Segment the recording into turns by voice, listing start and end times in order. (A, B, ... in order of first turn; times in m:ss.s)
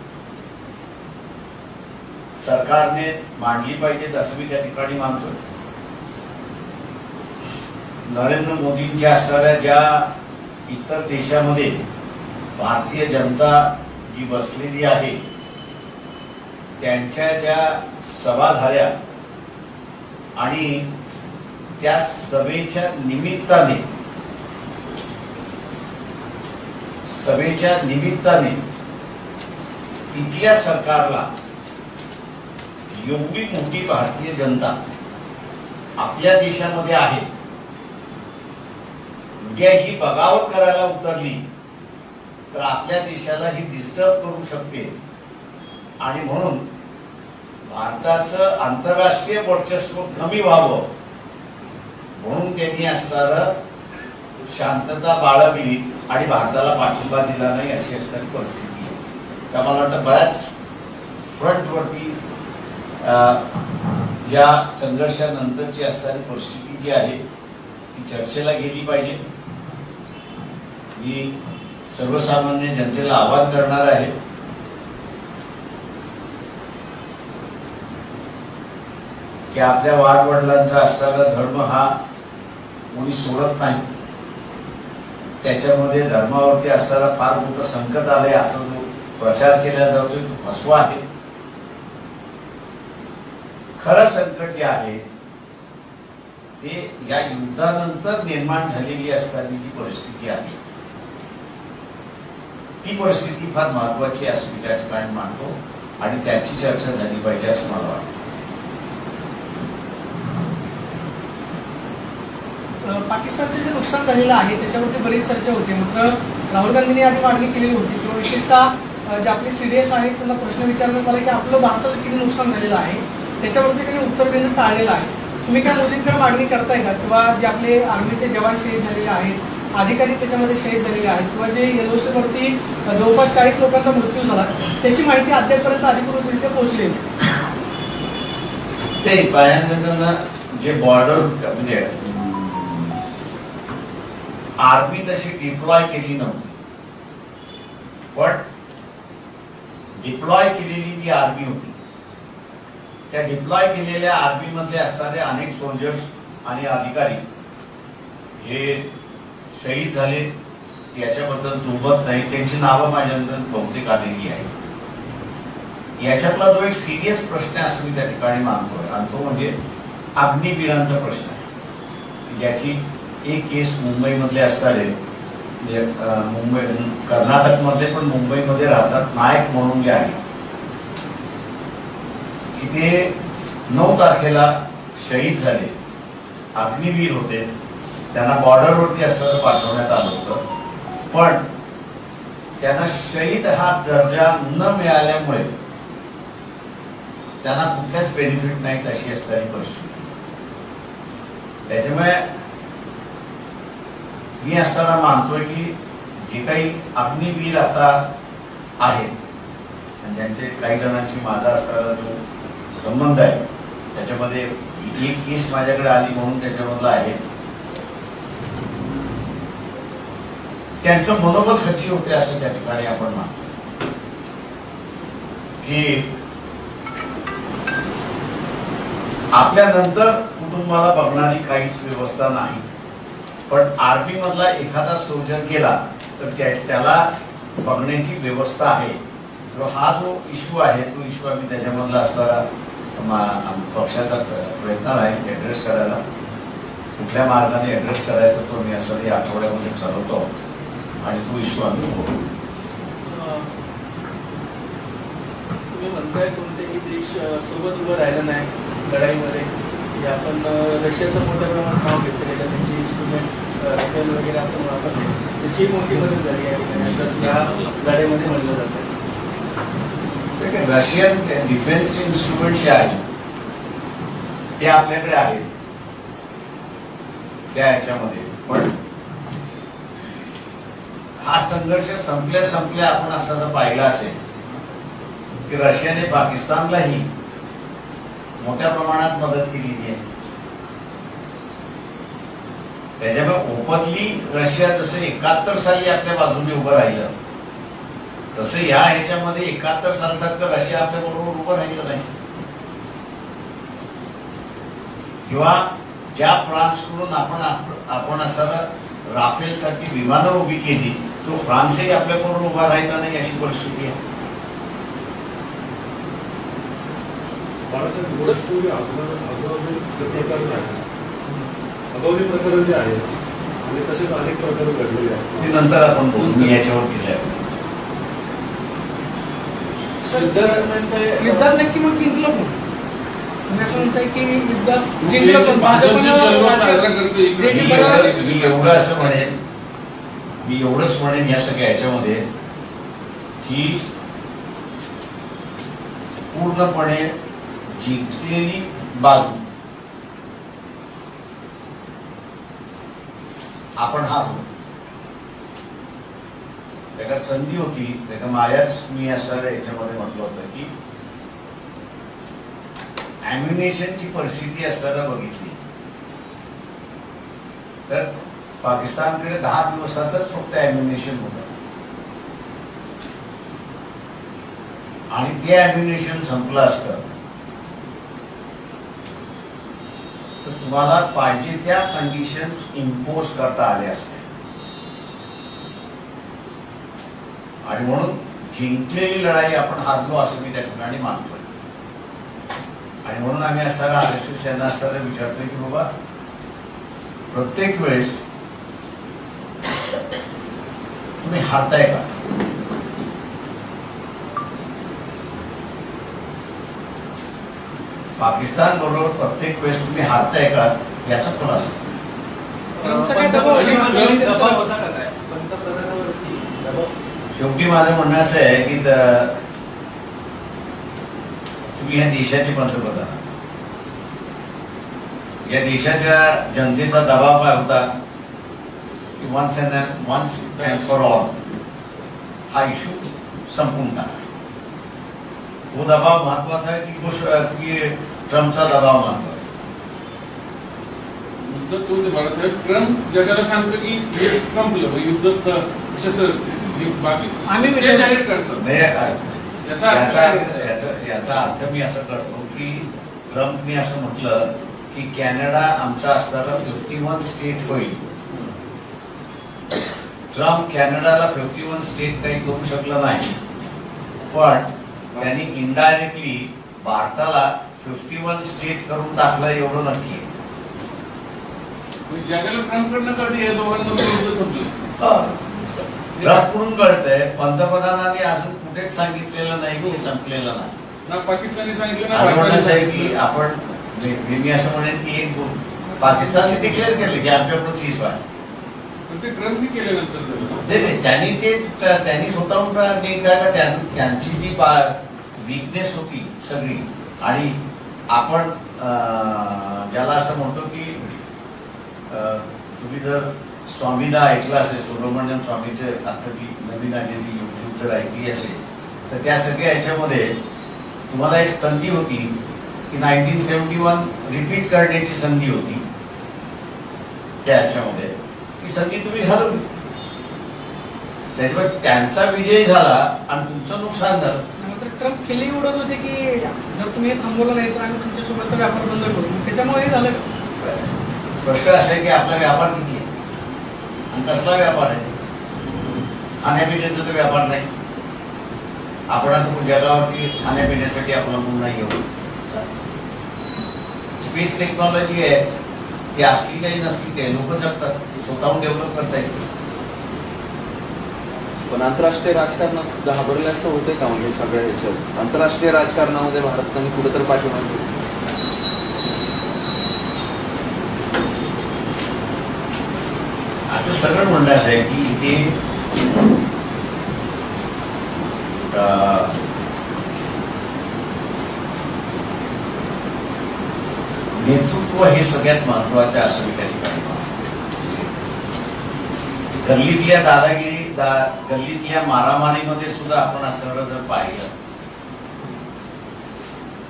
0:02.4-0:05.4 A
0:08.0-0:10.1 A
0:10.7-0:11.8 A
0:12.6-0:15.2 A
0:16.8-0:18.9 A
0:20.4-0:20.9 A
0:21.8-0:23.8 A
0:27.0-0:28.6 A
0:30.1-0:31.3 A
0:32.9-0:34.8 A
0:36.0-0:37.3 A
0:39.4-0:41.4 A
0:42.5-0:44.9 A
0:46.0-0:46.6 A
0:47.6-0:50.9 A
0:52.2-0:53.6 A
0:54.4-0:59.0 A
0:59.5-1:00.5 A
1:01.4-1:02.2 A
1:03.0-1:03.4 A
1:04.2-1:07.2 A
1:07.9-1:09.2 A
1:10.9-1:11.3 A
1:11.9-1:14.1 A
1:19.5-1:22.0 A
1:22.9-1:23.8 A
1:25.4-1:31.0 A
1:33.8-1:35.0 A
1:36.6-1:40.6 A
1:42.8-1:48.2 A
1:52.8-2:17.0 B
2:19.0-2:23.0 A
2:24.6-2:26.6 A
2:28.1-2:28.4 A
2:30.0-2:31.8 A
2:33.1-2:37.2 A
2:38.4-2:38.9 A
2:39.5-2:40.3 A
2:40.9-2:44.5 A
2:46.0-2:49.5 A
2:50.2-2:51.4 A
2:52.3-2:55.0 A
2:55.6-3:00.2 A
3:02.5-3:03.2 A
3:03.7-3:05.7 A
3:06.5-3:07.5 A
3:08.1-3:10.4 A
3:11.1-3:11.4 A
3:12.6-3:15.5 A
3:17.4-3:20.1 A
3:21.7-3:22.3 A
3:24.4-3:28.1 A
3:28.8-3:29.2 A
3:30.0-3:32.2 A
3:32.7-3:33.4 A
3:33.9-3:37.2 A
3:40.8-3:43.5 A
3:45.6-3:46.1 A
3:49.3-3:52.7 A
3:53.5-3:59.0 A
3:59.5-4:02.4 A
4:03.0-4:06.0 A
4:07.0-4:10.3 A
4:11.0-4:12.2 A
4:13.0-4:13.5 C
4:15.7-4:28.9 C
4:30.4-4:33.0 A
4:34.6-4:35.6 A
4:37.5-4:38.7 A
4:41.2-4:44.2 A
4:45.5-4:47.1 A
4:48.4-4:50.0 A
4:53.0-4:57.1 A
4:58.3-5:02.1 A
5:05.3-5:14.0 A
5:17.6-5:20.8 D
5:21.9-5:23.1 D
5:23.6-5:25.6 D
5:25.4-5:27.5 A
5:26.2-5:26.6 E
5:30.0-5:30.4 B
5:30.1-5:31.5 C
5:31.2-5:32.6 B
5:33.4-5:38.1 B
5:35.0-5:39.3 E
5:37.5-5:39.4 A
5:40.4-5:42.2 A
5:43.4-5:43.8 A
5:46.3-5:47.1 A
5:47.7-5:49.4 A
5:53.8-5:54.5 A
5:57.0-6:00.7 A
6:03.2-6:05.6 A
6:07.9-6:11.5 A
6:15.1-6:17.0 A
6:20.4-6:24.2 A
6:27.6-6:31.5 A
6:33.0-6:35.9 A
6:37.3-6:38.2 A
6:41.2-6:42.1 A
6:48.2-6:51.9 A
6:52.7-6:56.9 C
6:52.8-6:54.6 B
6:53.3-6:54.3 E
6:57.3-6:59.4 A
7:01.6-7:03.3 A
7:05.4-7:07.9 A
7:09.2-7:11.4 A
7:10.6-7:11.0 E
7:12.5-7:14.2 A
7:15.7-7:19.6 A
7:21.4-7:30.7 E
7:27.5-7:28.2 B
7:28.5-7:29.2 A
7:29.8-7:38.1 A
7:40.3-7:43.4 A
7:44.3-7:50.3 A
7:52.1-7:54.7 E
7:55.0-7:55.5 A
7:56.1-7:56.5 E
7:56.2-8:00.7 A
8:01.0-8:03.2 E
8:02.1-8:08.2 A
8:06.0-8:07.1 E
8:09.1-8:10.9 E
8:10.6-8:17.6 A
8:18.1-8:21.1 A
8:22.1-8:30.4 A
8:31.1-8:32.4 A
8:32.9-8:35.8 A
8:37.4-8:39.8 A
8:41.3-8:44.4 A
8:44.6-8:50.3 B
8:50.6-8:50.8 A
8:51.4-8:53.1 A
8:54.1-8:55.1 A
8:56.4-8:57.7 A
8:59.1-9:02.6 A
9:04.2-9:05.5 A
9:06.1-9:09.4 A
9:11.7-9:17.9 F
9:23.7-9:25.6 A
9:28.7-9:29.4 A
9:34.3-9:38.1 A
9:39.6-9:44.5 A